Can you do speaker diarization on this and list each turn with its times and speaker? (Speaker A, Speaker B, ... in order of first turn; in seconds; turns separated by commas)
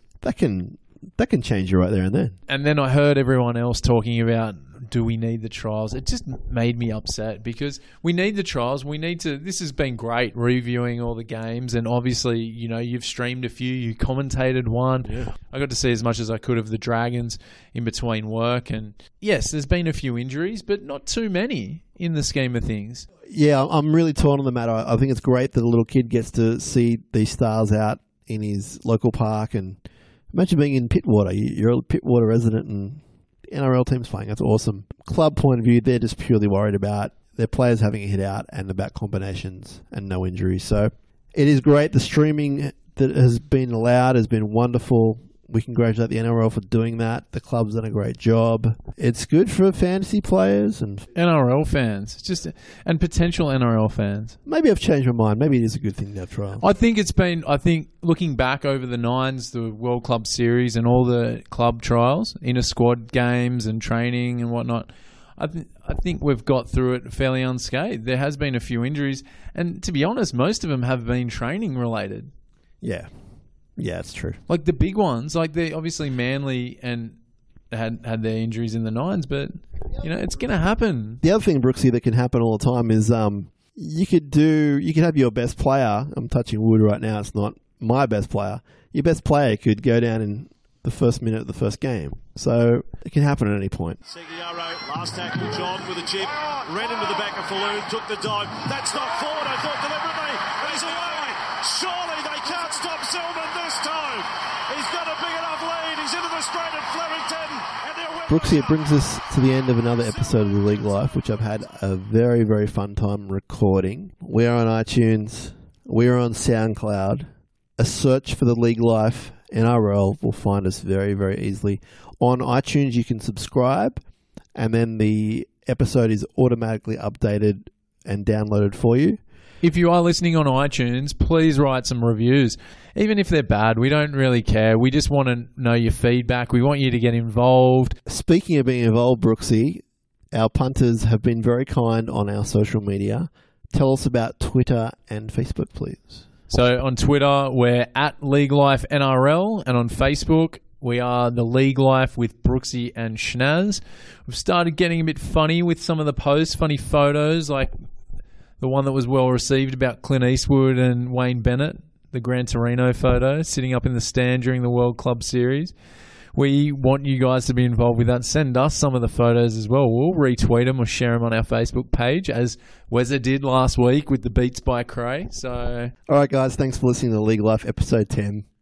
Speaker A: 0.2-2.4, Speaker B: 2.5-23.1, Speaker A: 15.1-15.3, Speaker A: 23.3-29.8, Speaker A: 30.3-51.1, Speaker B: 51.1-54.4, Speaker A: 54.5-56.6, Speaker B: 56.6-72.3, Speaker A: 72.8-73.1, Speaker A: 73.8-74.4, Speaker B: 74.5-77.2, Speaker B: 77.7-81.2, Speaker A: 81.2-94.0, Speaker C: 94.1-108.9, Speaker A: 108.3-124.0, Speaker A: 124.5-129.2, Speaker B: 129.6-138.0, Speaker A: 138.1-146.2, Speaker B: 146.5-157.7, Speaker B: 158.6-165.7, Speaker B: 166.3-175.9, Speaker A: 176.1-178.5